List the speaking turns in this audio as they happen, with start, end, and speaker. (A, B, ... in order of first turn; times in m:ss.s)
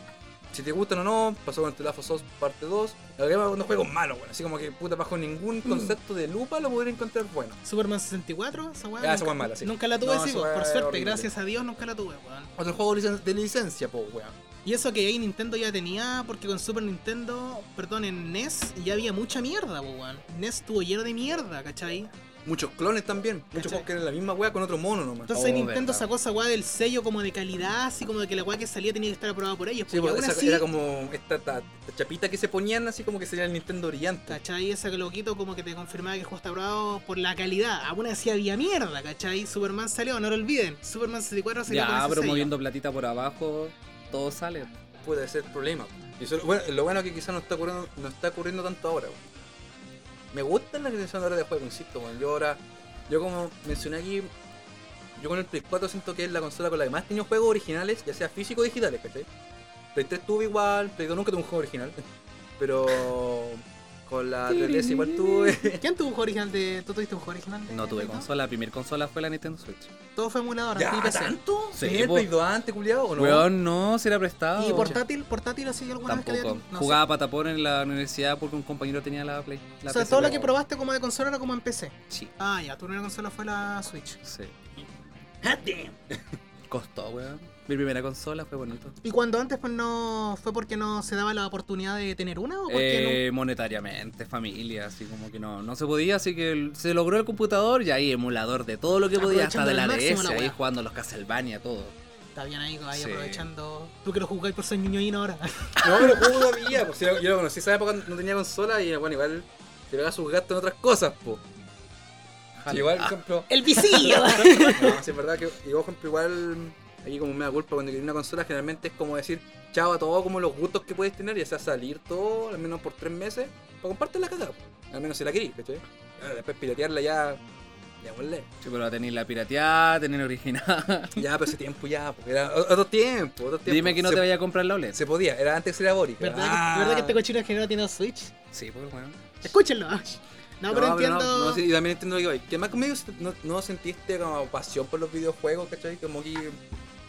0:00.5-0:07.6 A
0:05.6-0:05.9 B
0:07.6-0:12.5 B
0:09.0-0:11.3 A
0:12.6-0:14.4 A
0:14.6-0:22.1 B
0:22.4-0:25.3 A
0:23.5-0:23.8 B
0:25.3-0:30.6 B
0:25.3-0:26.0 C
0:29.9-0:34.4 A
0:34.3-0:42.5 B
0:41.7-0:44.7 C
0:45.0-0:49.3 A
0:50.3-0:54.3 A
0:55.2-0:59.3 A
0:59.9-1:02.0 A
1:02.6-1:05.8 A
1:04.5-1:05.6 C
1:05.8-1:08.3 B
1:07.7-1:09.9 C
1:10.2-1:11.4 B
1:10.7-1:13.5 A
1:11.8-1:12.3 C
1:13.2-1:15.0 C
1:14.6-1:17.0 B
1:14.7-1:15.0 A
1:16.0-1:20.5 C
1:19.8-1:24.2 B
1:24.2-1:24.5 C
1:25.4-1:26.2 A
1:26.7-1:29.0 C
1:29.0-1:33.2 B
1:32.7-1:42.0 C
1:39.1-1:40.6 B
1:42.4-1:46.8 B
1:42.9-1:43.5 C
1:45.8-1:51.4 A
1:52.6-1:53.2 C
1:52.6-2:07.4 A
1:53.5-1:55.0 B
1:54.0-1:54.5 C
2:08.0-2:08.5 A
2:08.6-2:11.2 C
2:11.2-2:14.3 A
2:13.6-2:15.0 C
2:14.9-2:17.2 A
2:16.2-2:18.3 B
2:18.5-2:19.4 C
2:19.4-2:21.6 B
2:20.7-2:26.6 A